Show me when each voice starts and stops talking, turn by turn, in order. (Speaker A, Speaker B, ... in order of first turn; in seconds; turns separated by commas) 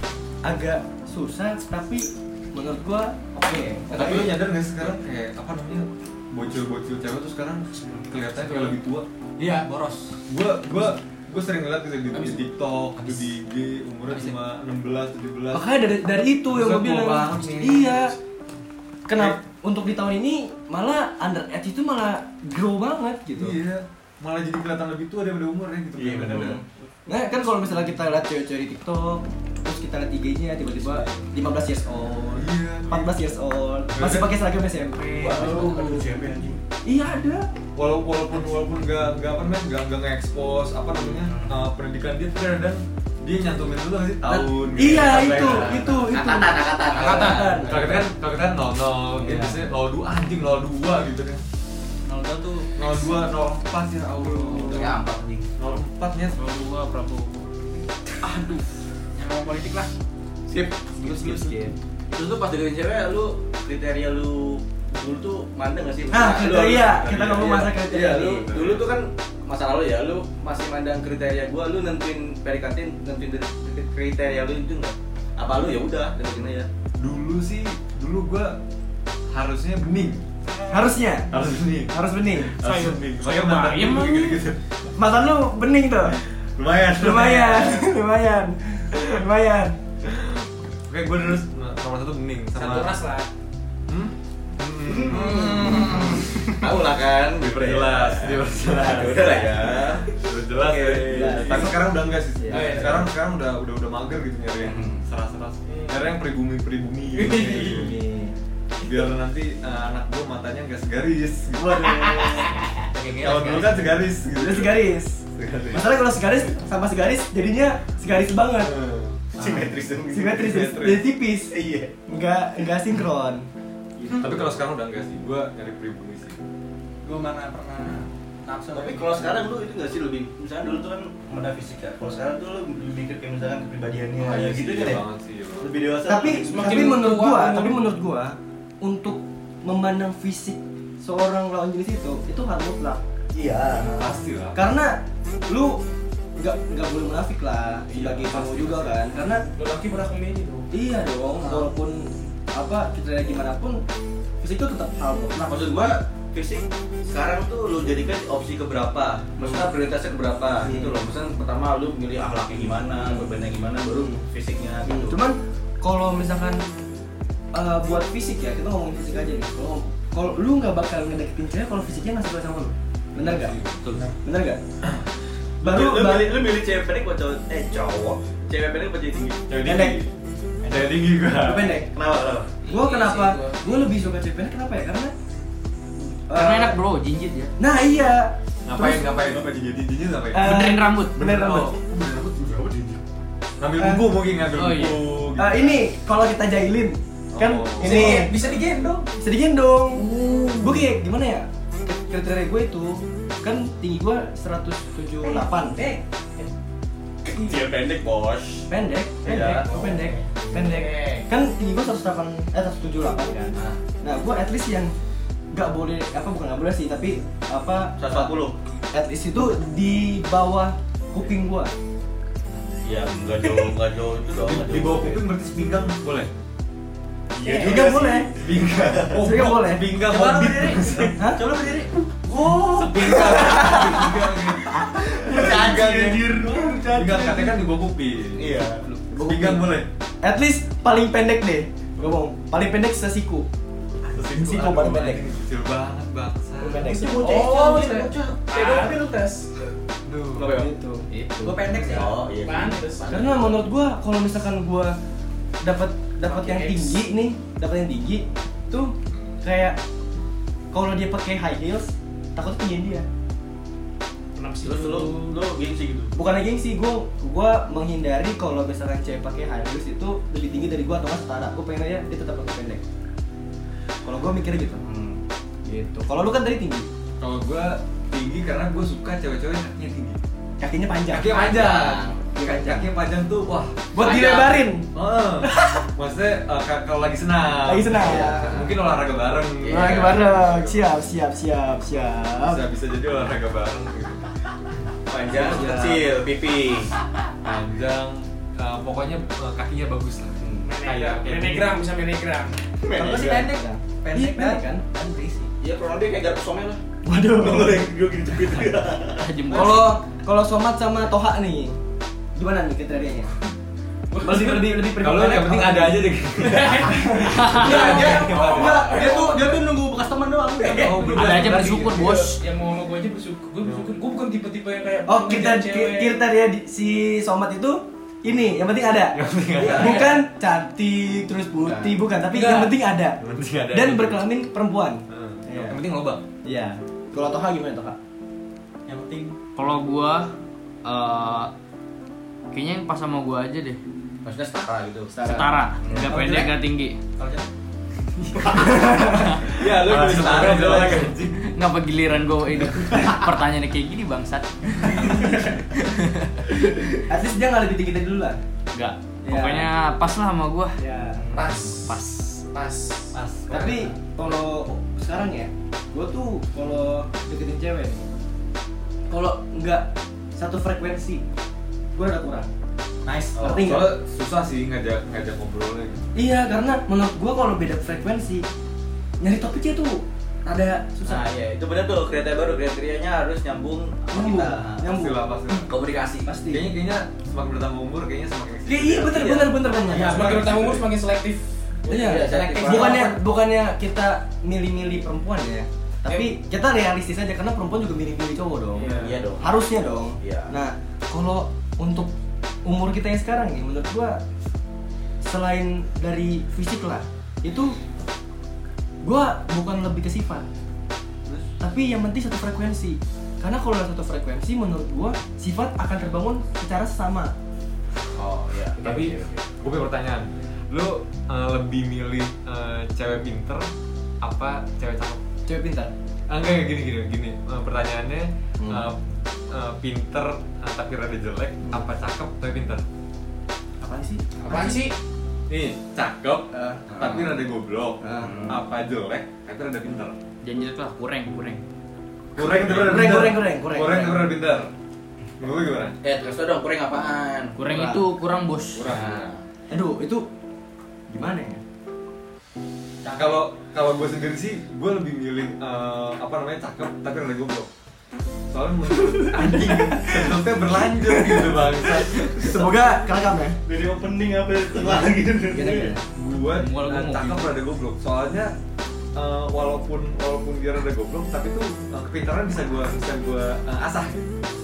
Speaker A: 0.4-4.2, Speaker B: 3.9-9.1, Speaker C: 3.9-4.3, Speaker D: 9.4-9.8, Speaker B: 10.3-15.7, Speaker A: 15.5-18.1, Speaker B: 16.5-18.1, Speaker A: 19.1-23.6, Speaker B: 23.4-26.6, Speaker C: 25.9-26.6, Speaker A: 26.3-36.0, Speaker B: 30.8-31.3, Speaker B: 32.4-33.1, Speaker B: 33.9-34.3, Speaker C: 35.1-36.6, Speaker A: 36.8-37.4, Speaker B: 37.8-46.1, Speaker C: 41.0-41.6, Speaker C: 44.3-48.0, Speaker A: 44.7-48.0, Speaker E: 47.0-47.6, Speaker B: 47.5-51.4, Speaker A: 49.2-49.6, Speaker D: 52.0-52.7, Speaker B: 52.7-55.0, Speaker C: 54.5-55.5, Speaker B: 55.6-56.4, Speaker F: 56.3-57.5, Speaker D: 59.1-59.9, Speaker C: 60.5-76.7, Speaker A: 61.0-61.7, Speaker A: 66.1-68.5, Speaker B: 66.8-67.7, Speaker B: 68.4-68.9, Speaker B: 77.0-78.6, Speaker B: 79.3-80.7, Speaker A: 80.7-81.3, Speaker B: 81.3-84.9, Speaker A: 81.9-82.5, Speaker E: 82.6-84.4, Speaker A: 85.0-86.2, Speaker B: 86.1-87.9, Speaker A: 87.0-89.8, Speaker B: 90.0-93.0, Speaker E: 92.5-93.3, Speaker B: 93.9-108.0, Speaker C: 94.8-101.8, Speaker A: 101.1-101.8, Speaker A: 102.3-102.9, Speaker E: 102.5-103.1, Speaker C: 104.5-105.0, Speaker A: 107.2-108.3, Speaker B: 108.8-112.4, Speaker C: 111.6-112.5, Speaker D: 113.0-113.8, Speaker B: 113.0-116.0, Speaker A: 114.3-118.7, Speaker B: 118.6-119.3, Speaker C: 119.3-120.6, Speaker A: 120.1-121.5, Speaker B: 120.3-121.0, Speaker C: 121.5-121.9, Speaker A: 122.1-123.5, Speaker C: 124.0-124.6, Speaker B: 124.1-126.4, Speaker D: 127.0-129.4, Speaker C: 128.7-135.1, Speaker B: 134.2-135.7, Speaker C: 135.6-137.0, Speaker A: 136.1-143.0, Speaker E: 136.3-137.8, Speaker C: 143.3-144.2, Speaker B: 143.7-144.7, Speaker A: 144.5-145.0, Speaker A: 145.5-145.8, Speaker A: 146.4-149.4, Speaker C: 147.9-148.9, Speaker E: 149.5-150.7, Speaker A: 150.7-153.8, Speaker C: 151.4-151.7, Speaker A: 154.4-156.0, Speaker C: 155.4-165.2, Speaker A: 159.4-159.7, Speaker A: 160.6-161.0, Speaker A: 163.0-163.3, Speaker A: 163.9-164.2, Speaker A: 164.8-166.6, Speaker A: 167.5-173.5, Speaker B: 173.2-174.2, Speaker A: 174.2-174.6, Speaker C: 175.6-179.9, Speaker A: 175.6-176.4, Speaker B: 179.5-180.1, Speaker B: 180.6-181.8, Speaker A: 181.4-181.9, Speaker C: 181.8-182.5, Speaker E: 182.6-183.8, Speaker A: 182.7-185.1, Speaker A: 186.3-186.8, Speaker F: 186.3-187.5, Speaker A: 187.6-189.3, Speaker B: 188.7-190.6, Speaker A: 190.3-191.7, Speaker F: 190.4-191.3, Speaker B: 191.1-193.0, Speaker B: 193.6-195.8, Speaker A: 193.8-194.1, Speaker F: 194.5-195.1, Speaker A: 195.3-198.3, Speaker B: 197.3-198.5, Speaker E: 197.8-199.1, Speaker A: 199.2-205.8, Speaker E: 200.1-200.5, Speaker E: 205.2-206.5, Speaker C: 207.2-208.7, Speaker A: 208.7-214.9, Speaker C: 209.2-209.8, Speaker E: 210.5-211.2, Speaker A: 215.5-218.3, Speaker C: 218.0-218.5, Speaker A: 218.9-221.7, Speaker C: 222.8-225.2, Speaker B: 224.4-226.3, Speaker C: 227.4-229.3, Speaker A: 227.4-228.3, Speaker B: 227.6-231.2, Speaker A: 229.1-229.9, Speaker D: 230.0-231.9, Speaker A: 231.2-231.4, Speaker C: 232.3-237.6, Speaker B: 232.4-236.3, Speaker D: 235.4-236.1, Speaker B: 236.8-238.6, Speaker C: 238.4-238.9, Speaker A: 239.1-243.5, Speaker B: 239.1-239.9, Speaker B: 244.1-246.9, Speaker A: 244.3-245.2, Speaker A: 246.6-247.4, Speaker E: 246.7-249.5, Speaker C: 246.8-249.0, Speaker B: 250.0-250.5, Speaker C: 250.3-250.7, Speaker A: 250.4-251.1, Speaker F: 251.1-251.4, Speaker D: 251.4-252.2, Speaker C: 251.4-253.6, Speaker E: 252.3-253.4, Speaker A: 253.1-254.9, Speaker A: 255.6-259.8, Speaker E: 256.2-257.0, Speaker A: 260.7-263.1, Speaker E: 264.3-265.3, Speaker C: 264.6-266.1, Speaker A: 266.1-272.8, Speaker A: 274.0-274.8, Speaker C: 274.8-275.2, Speaker A: 275.6-276.9, Speaker B: 277.2-280.2, Speaker A: 280.6-281.3, Speaker B: 281.1-290.8, Speaker C: 281.3-282.3, Speaker A: 282.3-282.9, Speaker A: 283.9-284.9, Speaker A: 285.4-285.8, Speaker A: 287.6-288.6, Speaker C: 287.9-288.8, Speaker C: 289.6-290.3, Speaker A: 289.6-292.6, Speaker B: 292.4-294.9, Speaker C: 295.1-296.9, Speaker A: 295.1-296.1, Speaker B: 297.4-301.8, Speaker C: 300.4-300.7, Speaker E: 300.6-302.6, Speaker C: 302.8-303.4, Speaker D: 302.9-305.5, Speaker A: 303.0-304.8, Speaker C: 305.6-306.8, Speaker A: 307.0-307.9, Speaker C: 307.3-309.3, Speaker F: 309.1-310.0, Speaker A: 309.5-311.8, Speaker A: 312.4-313.3, Speaker E: 314.1-314.7, Speaker A: 314.2-316.1, Speaker B: 314.9-319.1, Speaker E: 316.4-319.5, Speaker A: 316.8-317.4, Speaker F: 317.3-318.1, Speaker C: 317.5-321.2, Speaker A: 318.5-319.5, Speaker B: 320.6-322.1, Speaker E: 320.8-321.1, Speaker F: 321.1-322.4, Speaker E: 322.3-326.2, Speaker B: 323.6-323.9, Speaker A: 325.1-333.2, Speaker B: 329.1-330.1, Speaker E: 329.6-330.2, Speaker E: 332.2-332.7, Speaker B: 333.2-334.2, Speaker A: 333.7-335.8, Speaker B: 335.1-336.2, Speaker A: 336.4-338.0, Speaker D: 338.9-339.4, Speaker F: 339.6-340.3, Speaker F: 340.8-341.5, Speaker F: 342.5-343.8, Speaker C: 344.2-345.1, Speaker A: 345.1-345.5, Speaker F: 345.2-347.0, Speaker C: 345.8-346.1, Speaker D: 346.1-346.4, Speaker D: 347.2-347.4, Speaker C: 348.4-351.1, Speaker A: 348.4-349.3, Speaker B: 349.5-351.4, Speaker F: 350.1-356.4, Speaker A: 350.2-351.0, Speaker A: 354.9-355.6, Speaker A: 356.6-358.4, Speaker F: 358.7-360.8, Speaker A: 359.2-359.7, Speaker A: 360.8-361.2, Speaker E: 361.3-363.1, Speaker F: 361.7-362.4, Speaker D: 363.1-363.9, Speaker A: 363.5-368.1, Speaker A: 369.1-371.2, Speaker A: 371.9-372.5, Speaker D: 373.0-373.4, Speaker C: 373.3-373.7, Speaker A: 373.4-373.9, Speaker B: 373.5-376.0, Speaker A: 376.1-378.5, Speaker A: 379.2-381.2, Speaker C: 381.0-384.9, Speaker A: 384.1-385.6, Speaker B: 384.8-385.7, Speaker C: 385.6-386.4, Speaker A: 386.2-386.7, Speaker B: 386.5-389.4, Speaker A: 388.6-390.3, Speaker C: 389.1-390.4, Speaker E: 389.9-392.8, Speaker B: 390.0-390.9, Speaker C: 391.9-393.1, Speaker A: 391.9-402.1, Speaker D: 392.3-393.1, Speaker E: 396.1-396.3, Speaker C: 398.8-399.6, Speaker E: 398.8-399.2, Speaker C: 400.2-400.5, Speaker A: 402.6-404.2, Speaker A: 405.2-407.8, Speaker A: 409.0-410.5, Speaker A: 411.6-417.3, Speaker C: 418.1-419.5, Speaker B: 418.8-423.6, Speaker B: 424.2-425.2, Speaker A: 425.4-425.9, Speaker B: 426.3-432.8, Speaker A: 428.6-428.9, Speaker A: 433.8-434.8, Speaker E: 434.4-434.9, Speaker B: 435.5-440.2, Speaker A: 436.5-436.8, Speaker C: 436.9-437.3, Speaker A: 438.0-438.5, Speaker C: 438.2-438.6, Speaker F: 440.4-441.6, Speaker B: 442.4-444.7, Speaker A: 442.4-444.3, Speaker B: 445.4-445.9, Speaker C: 446.0-447.6, Speaker F: 447.6-448.9, Speaker A: 447.6-448.0, Speaker B: 448.7-449.2, Speaker C: 448.9-449.4, Speaker A: 449.7-450.2, Speaker A: 451.1-451.6, Speaker D: 453.0-453.5, Speaker B: 453.1-457.7, Speaker B: 458.5-462.7, Speaker A: 459.1-460.3, Speaker A: 460.9-463.6, Speaker C: 463.6-465.9, Speaker A: 465.5-466.0, Speaker B: 466.1-468.5, Speaker F: 466.5-467.6, Speaker B: 469.1-474.3